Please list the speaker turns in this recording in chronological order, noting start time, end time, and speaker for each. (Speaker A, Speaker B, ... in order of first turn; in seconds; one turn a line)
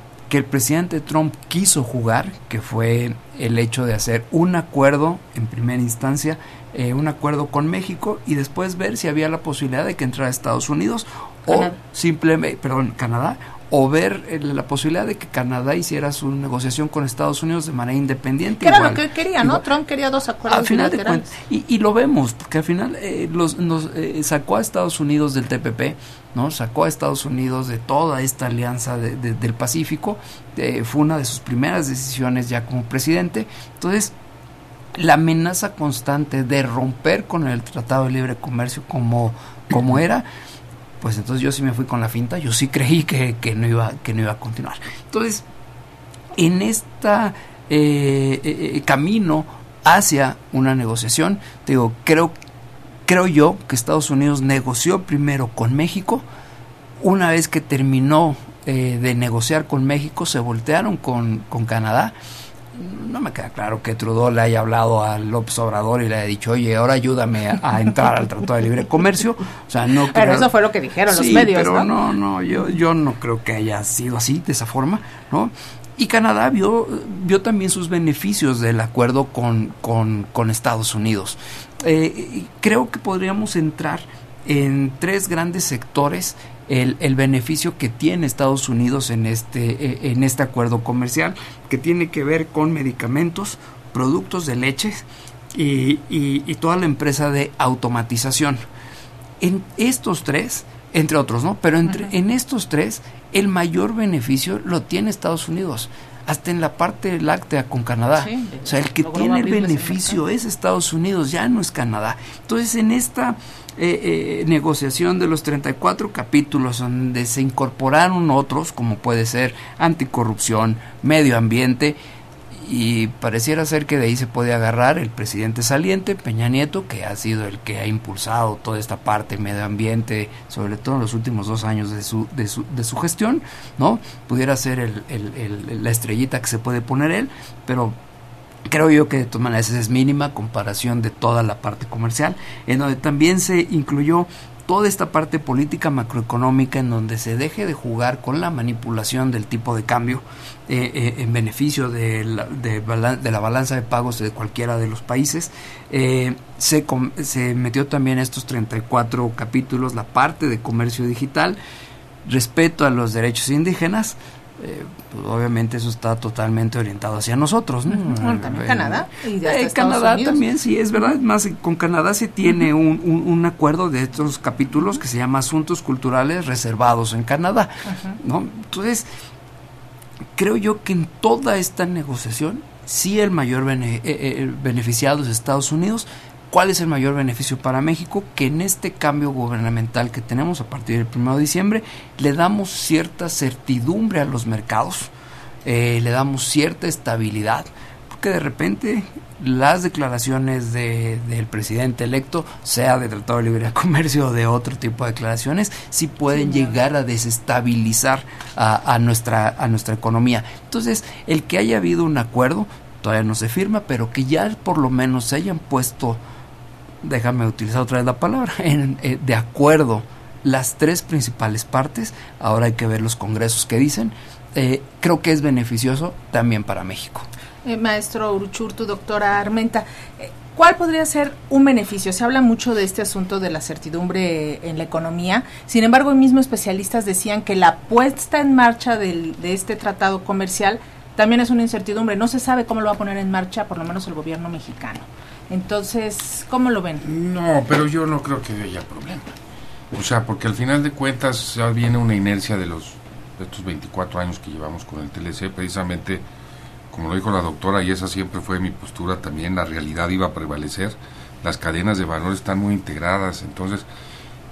Speaker A: 0.3-19.6
Speaker B: 11.5-11.7
Speaker B: 18.6-21.3
Speaker A: 20.5-34.1
Speaker A: 34.9-40.3
Speaker A: 41.0-45.4
Speaker A: 46.4-52.4
Speaker A: 53.0-56.2
Speaker A: 57.0-62.1
Speaker A: 62.7-70.5
Speaker B: 70.1-71.9
Speaker A: 71.1-98.6
Speaker A: 99.4-122.0
Speaker B: 101.8-102.1
Speaker B: 108.2-110.2
Speaker A: 122.5-138.0
Speaker A: 138.7-161.6
Speaker A: 162.2-179.1
Speaker B: 167.9-170.4
Speaker B: 177.9-178.2
Speaker A: 180.3-195.1
Speaker A: 195.6-216.2
Speaker B: 206.3-206.7
Speaker A: 217.0-227.3
Speaker B: 227.6-247.0
Speaker C: 247.0-249.3
Speaker C: 249.9-256.2
Speaker C: 256.9-263.9